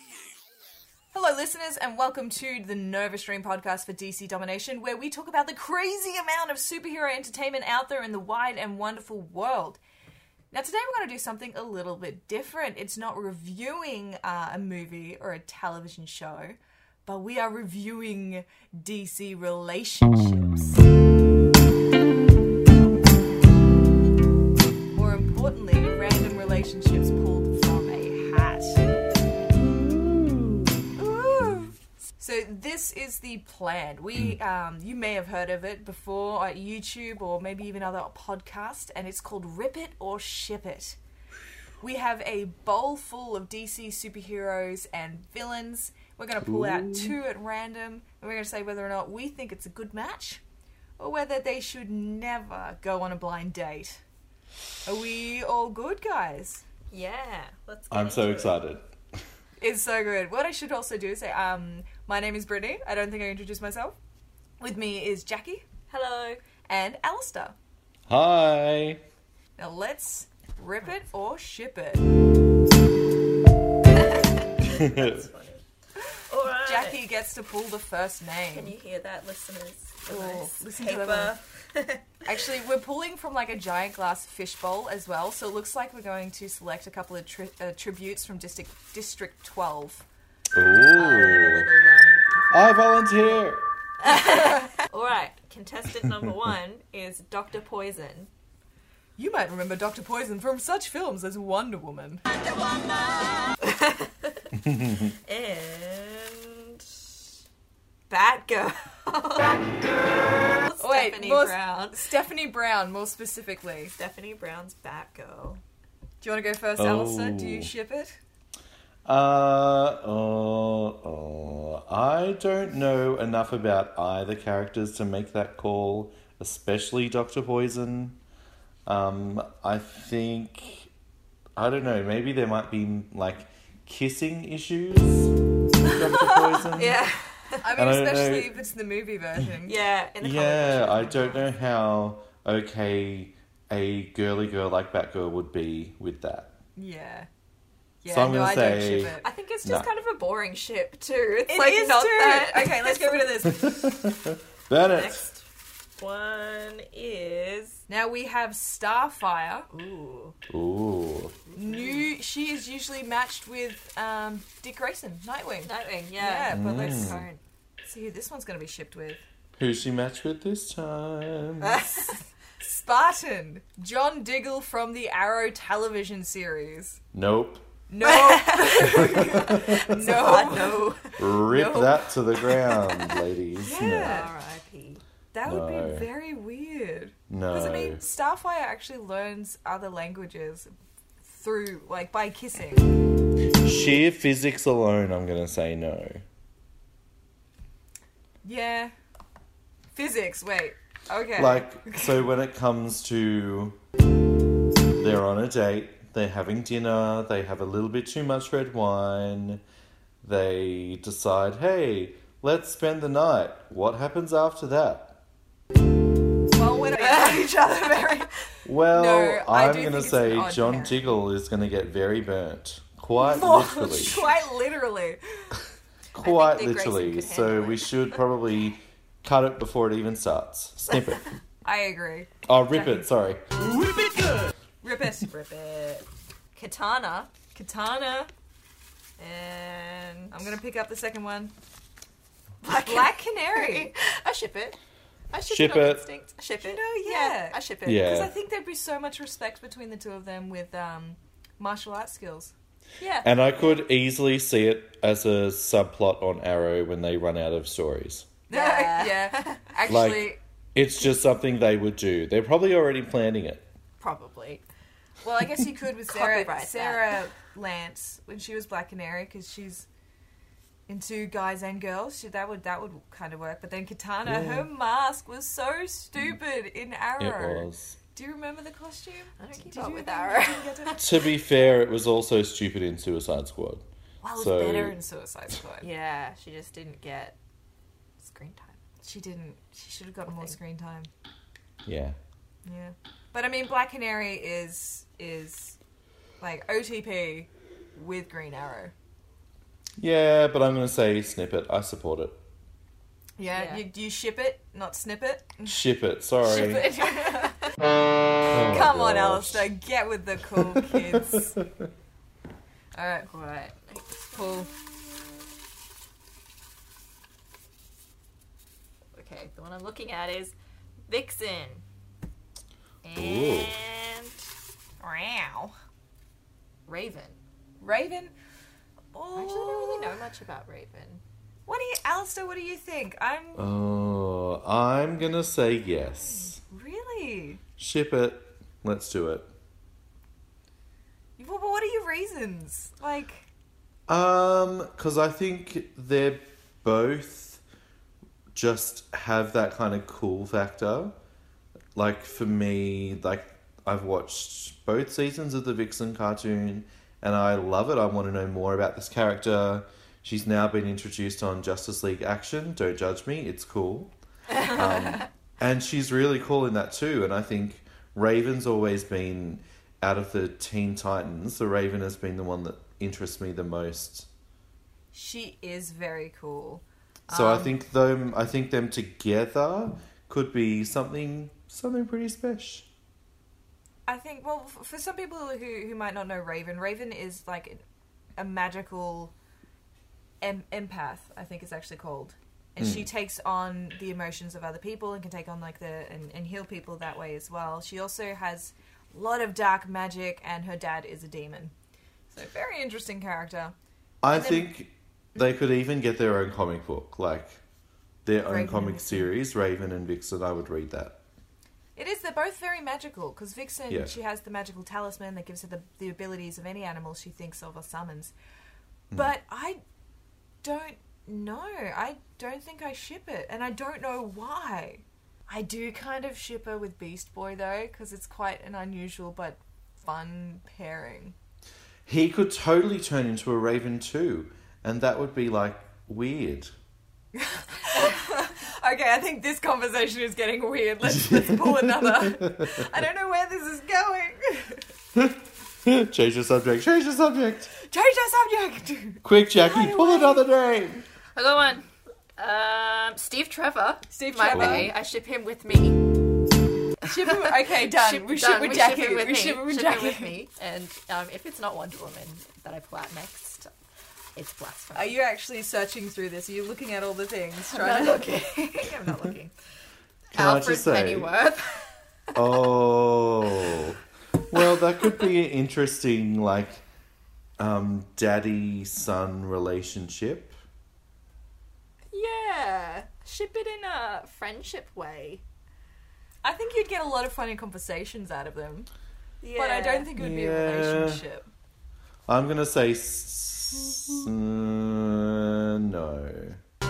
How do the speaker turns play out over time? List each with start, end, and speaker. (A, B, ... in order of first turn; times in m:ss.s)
0:01.1-0:09.8 A
0:10.5-0:20.9 A
0:24.9-0:28.9 A
0:29.7-0:30.8 B
0:31.0-0:41.0 A
0:41.8-0:50.4 A
0:46.4-0:47.2 B
0:51.0-0:54.0 A
0:54.8-0:56.6 A
0:56.9-0:58.6 C
0:57.9-0:58.8 B
0:59.6-1:04.0 A
1:04.6-1:05.6 A
1:05.9-1:06.4 C
1:06.6-1:07.6 A
1:08.1-1:09.0 B
1:09.6-1:12.1 A
1:13.9-1:15.6 C
1:14.6-1:15.2 B
1:16.3-1:17.0 C
1:16.6-1:18.8 A
1:18.5-1:22.3 C
1:20.1-1:21.4 A
1:22.3-1:30.0 A
1:30.5-1:31.7 B
1:30.7-1:32.6 C
1:32.5-1:33.6 B
1:34.0-1:38.3 C
1:34.1-1:34.7 A
1:39.2-1:42.2 A
1:42.4-1:44.5 C
1:44.5-1:45.2 B
1:45.3-1:46.8 C
1:48.1-1:52.1 C
1:50.8-1:53.9 A
1:54.0-1:55.6 C
1:56.2-1:58.2 A
1:56.8-1:57.7 B
1:59.0-2:08.2 B
2:08.9-2:10.9 B
2:11.6-2:17.0 B
2:16.1-2:17.7 C
2:17.6-2:19.8 A
2:17.8-2:18.6 B
2:19.6-2:21.5 C
2:20.2-2:26.6 B
2:26.8-2:27.3 A
2:28.0-2:29.3 A
2:28.1-2:29.9 B
2:29.2-2:33.5 C
2:31.5-2:33.9 A
2:33.4-2:35.2 B
2:34.9-2:35.4 C
2:36.0-2:37.8 C
2:37.9-2:39.7 A
2:39.7-2:40.4 C
2:40.5-2:41.4 B
2:41.5-2:42.1 C
2:41.6-2:47.1 A
2:45.6-2:47.4 C
2:46.5-2:47.3 B
2:47.8-2:49.2 A
2:49.6-2:51.8 B
2:51.6-2:52.2 C
2:52.0-2:57.0 A
2:57.1-2:57.7 B
2:57.9-3:01.9 A
2:58.0-3:01.9 C
2:59.1-3:00.4 B
3:01.2-3:04.2 B
3:03.6-3:04.3 A
3:03.7-3:05.0 C
3:05.3-3:10.7 A
3:05.4-3:06.1 B
3:07.3-3:08.0 B
3:11.2-3:13.0 A
3:13.6-3:16.2 B
3:18.4-3:18.9 A
3:19.9-3:22.2 A
3:21.4-3:23.8 B
3:25.0-3:29.6 B
3:30.2-3:35.2 B
3:36.5-3:38.3 A
3:36.9-3:38.3 C
3:38.6-3:44.3 B
3:38.9-3:41.2 A
3:43.2-3:45.6 A
3:46.1-3:51.3 B
3:46.2-3:48.2 C
3:51.6-3:53.1 A
3:52.5-3:53.4 B
3:54.8-3:56.0 A
3:56.6-3:57.3 C
3:57.5-3:58.3 A
3:59.2-4:00.3 C
4:00.3-4:01.5 A
4:02.6-4:04.8 C
4:02.8-4:03.9 A
4:05.3-4:08.1 C
4:05.5-4:06.0 B
4:06.6-4:12.5 A
4:07.8-4:08.3 B
4:13.0-4:13.3 C
4:13.2-4:18.3 B
4:18.5-4:20.4 A
4:18.5-4:19.7 C
4:19.9-4:23.6 B
4:24.0-4:24.6 C
4:25.2-4:29.9 A
4:26.1-4:27.2 C
4:30.9-4:41.0 A
4:34.2-4:34.7 B
4:37.2-4:38.0 B
4:39.4-4:41.1 C
4:41.0-4:45.0 B
4:44.2-4:45.9 A
4:45.8-4:47.4 C
4:48.2-4:48.8 C
4:49.0-4:51.1 A
4:50.3-4:50.6 C
4:51.8-4:52.2 B
4:52.6-4:55.8 A
4:56.4-4:58.9 A
5:00.0-5:02.4 B
5:03.4-5:05.8 A
5:03.5-5:03.8 C
5:05.7-5:06.9 B
5:06.4-5:07.6 A
5:06.5-5:07.7 C
5:08.5-5:09.7 B
5:08.5-5:11.6 A
5:10.5-5:11.8 B
5:12.9-5:13.3 A
5:13.3-5:15.5 C
5:14.3-5:14.7 A
5:19.1-5:20.5 C
5:21.1-5:21.8 C
5:23.0-5:24.4 C
5:23.2-5:23.7 B
5:25.0-5:25.8 C
5:26.9-5:27.4 C
5:27.8-5:28.3 A
5:29.1-5:30.2 A
5:29.4-5:31.2 C
5:31.7-5:33.7 A
5:33.6-5:36.6 B
5:36.3-5:37.6 A
5:37.8-5:39.5 B
5:41.4-5:43.4 A
5:44.1-5:47.6 B
5:48.5-5:51.2 B
5:52.0-6:14.3 B
6:04.5-6:05.2 C
6:15.1-6:17.7 A
6:17.3-6:22.9 B
6:24.1-6:27.8 A
6:28.4-6:29.3 A
6:30.4-6:41.7 A
6:32.8-6:33.1 B
6:42.3-6:43.8 A
6:44.2-6:47.6 B
6:44.3-6:44.7 A
6:48.2-6:51.2 B
6:48.5-6:49.3 A
6:52.0-6:58.3 A
6:53.9-6:54.2 B
6:59.1-6:59.8 A
7:00.6-7:11.4 A
7:12.1-7:16.7 B
7:17.4-7:24.9 A
7:21.0-7:22.8 B
7:25.2-7:27.7 B
7:27.8-7:30.5 A
7:29.2-7:31.1 B
7:31.4-7:31.9 C
7:32.4-7:36.0 C
7:34.1-7:34.9 A
7:34.5-7:34.9 B
7:37.0-7:40.4 A
7:37.3-7:43.7 C
7:44.4-7:45.2 C
7:45.0-7:48.3 A
7:47.7-7:49.5 C
7:50.3-7:51.3 B
7:50.3-7:52.4 C
7:52.4-7:54.0 B
7:54.5-7:56.8 B
7:57.6-8:00.6 B
8:02.1-8:05.4 C
8:06.4-8:08.9 A
8:09.4-8:10.1 C
8:09.6-8:11.5 A
8:10.2-8:11.2 B
8:12.3-8:16.6 B